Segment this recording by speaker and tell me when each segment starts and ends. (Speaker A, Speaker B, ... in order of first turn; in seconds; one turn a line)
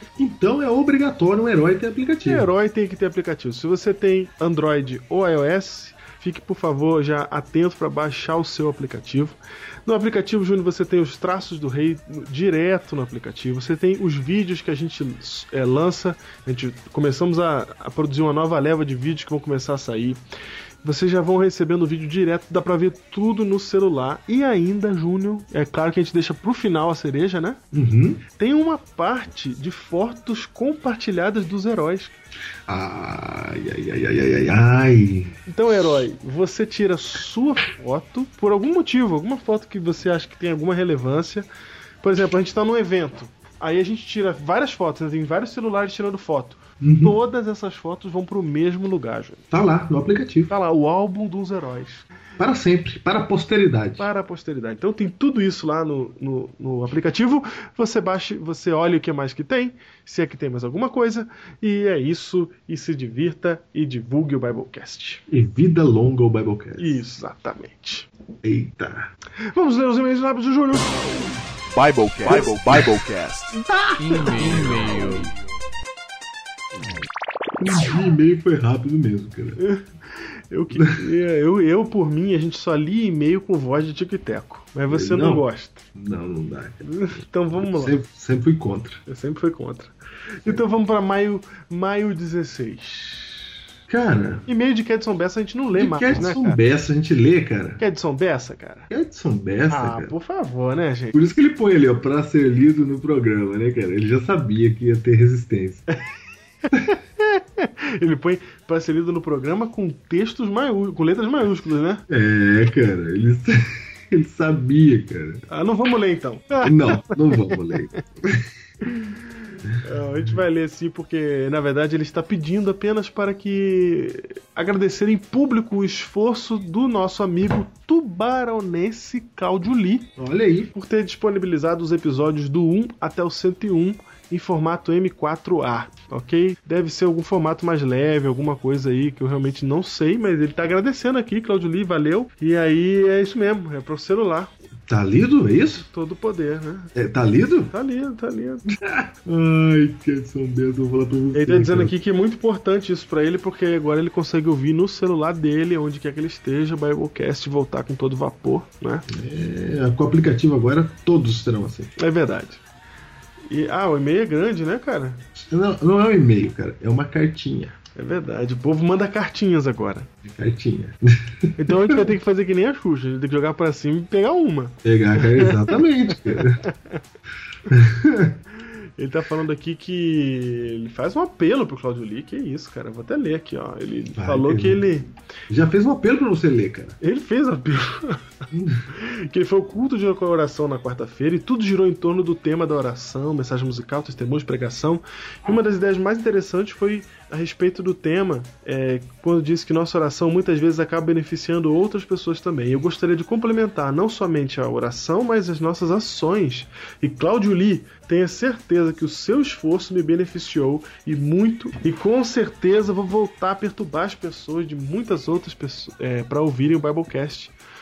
Speaker A: 0.2-2.5
Speaker B: 2.2-20.2
Speaker B: 20.8-27.6
Speaker A: 27.7-28.2
Speaker B: 28.4-32.2
Speaker A: 32.7-35.4
Speaker B: 35.5-41.5
Speaker B: 42.0-49.4
Speaker A: 46.8-47.1
Speaker A: 49.5-50.5
Speaker B: 50.5-52.0
Speaker A: 52.4-54.1
Speaker B: 54.0-65.2
Speaker A: 65.3-67.0
Speaker B: 66.8-68.1
Speaker A: 68.4-69.1
Speaker B: 69.5-71.3
Speaker C: 71.8-73.2
Speaker B: 72.2-73.5
Speaker A: 72.2-75.2
Speaker B: 74.1-74.4
Speaker C: 74.4-75.2
Speaker A: 77.6-79.6
Speaker B: 79.6-85.8
Speaker A: 80.7-81.1
Speaker A: 84.9-87.0
Speaker B: 86.8-88.0
Speaker A: 87.5-89.0
Speaker B: 89.1-93.5
Speaker A: 93.9-94.5
Speaker B: 94.5-96.6
Speaker A: 95.7-97.8
Speaker B: 97.8-98.9
Speaker A: 98.9-100.1
Speaker B: 99.7-101.2
Speaker A: 101.1-105.8
Speaker B: 106.7-112.0
Speaker A: 112.1-115.4
Speaker B: 115.5-118.0
Speaker A: 116.6-118.9
Speaker A: 119.6-120.4
Speaker B: 119.8-130.1
Speaker A: 130.2-130.7
Speaker B: 130.7-144.5
Speaker A: 144.9-145.8
Speaker B: 145.7-146.9
Speaker A: 146.9-147.7
Speaker B: 147.7-148.7
Speaker A: 148.7-151.9
Speaker B: 151.3-159.1
Speaker A: 159.1-161.9
Speaker B: 162.0-162.6
Speaker B: 163.5-165.2
Speaker A: 165.3-167.8
Speaker B: 167.9-170.1
Speaker A: 170.2-172.0
Speaker B: 171.6-177.0
Speaker A: 174.8-176.6
Speaker A: 177.7-178.4
Speaker B: 179.0-185.1
Speaker A: 184.2-184.9
Speaker A: 185.5-187.0
Speaker B: 187.0-188.2
Speaker A: 188.5-188.9
Speaker B: 188.9-217.5